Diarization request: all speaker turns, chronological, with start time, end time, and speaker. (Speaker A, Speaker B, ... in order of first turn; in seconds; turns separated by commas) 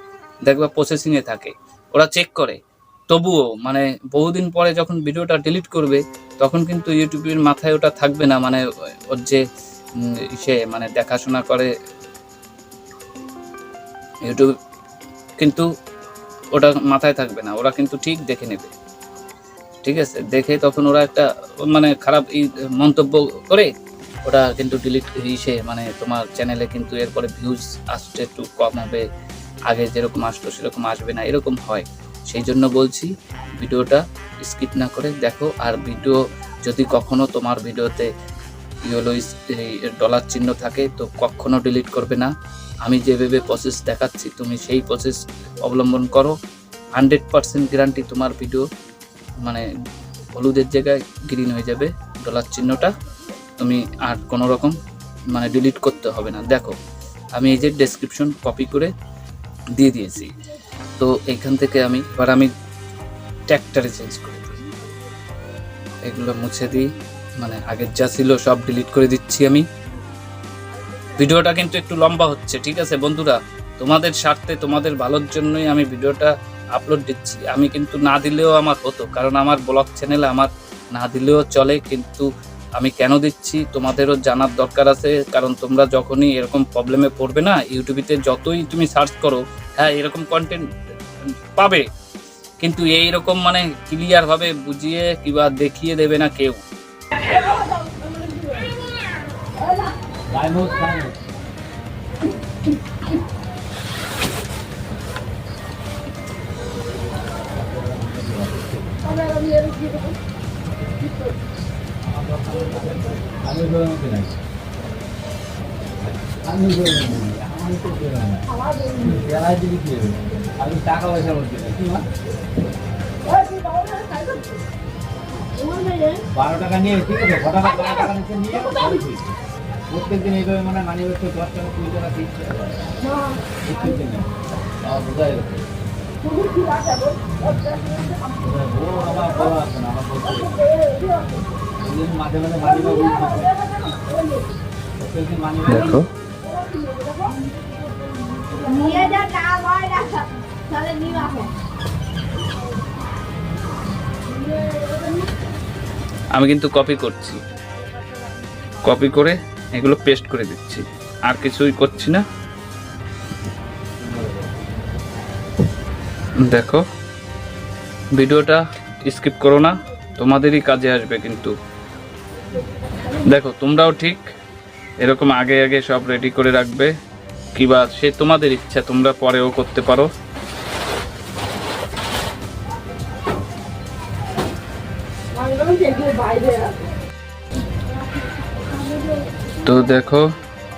Speaker A: 0.5-2.6, Speaker A: 3.1-9.4, Speaker A: 10.0-11.7, Speaker A: 14.2-14.5, Speaker A: 15.4-15.7, Speaker A: 16.5-18.7, Speaker A: 19.8-23.7, Speaker A: 24.2-29.1, Speaker A: 29.7-38.1, Speaker A: 38.8-42.3, Speaker A: 42.8-46.4, Speaker A: 47.0-48.6, Speaker A: 50.4-52.9, Speaker A: 53.6-54.8, Speaker A: 55.3-56.8, Speaker A: 57.3-58.9, Speaker A: 59.8-60.3, Speaker A: 61.0-62.5, Speaker A: 63.5-64.6, Speaker A: 66.0-66.9, Speaker A: 67.4-69.7, Speaker A: 71.2-90.6, Speaker A: 91.5-91.9, Speaker A: 92.6-96.6, Speaker B: 100.3-101.2, Speaker B: 107.8-109.1, Speaker B: 112.1-114.3, Speaker B: 116.4-122.1, Speaker C: 123.5-124.3, Speaker C: 125.8-126.1, Speaker B: 126.3-129.3, Speaker B: 129.9-132.9, Speaker B: 133.6-135.6, Speaker B: 138.2-140.8, Speaker B: 141.8-143.9, Speaker B: 145.0-145.8, Speaker A: 145.6-146.1, Speaker C: 148.5-151.5, Speaker A: 156.3-157.4, Speaker A: 158.8-162.2, Speaker A: 166.4-166.8, Speaker A: 168.1-171.6, Speaker A: 173.1-174.3, Speaker A: 175.0-176.9, Speaker A: 177.5-180.1, Speaker C: 185.5-186.7, Speaker A: 189.6-190.3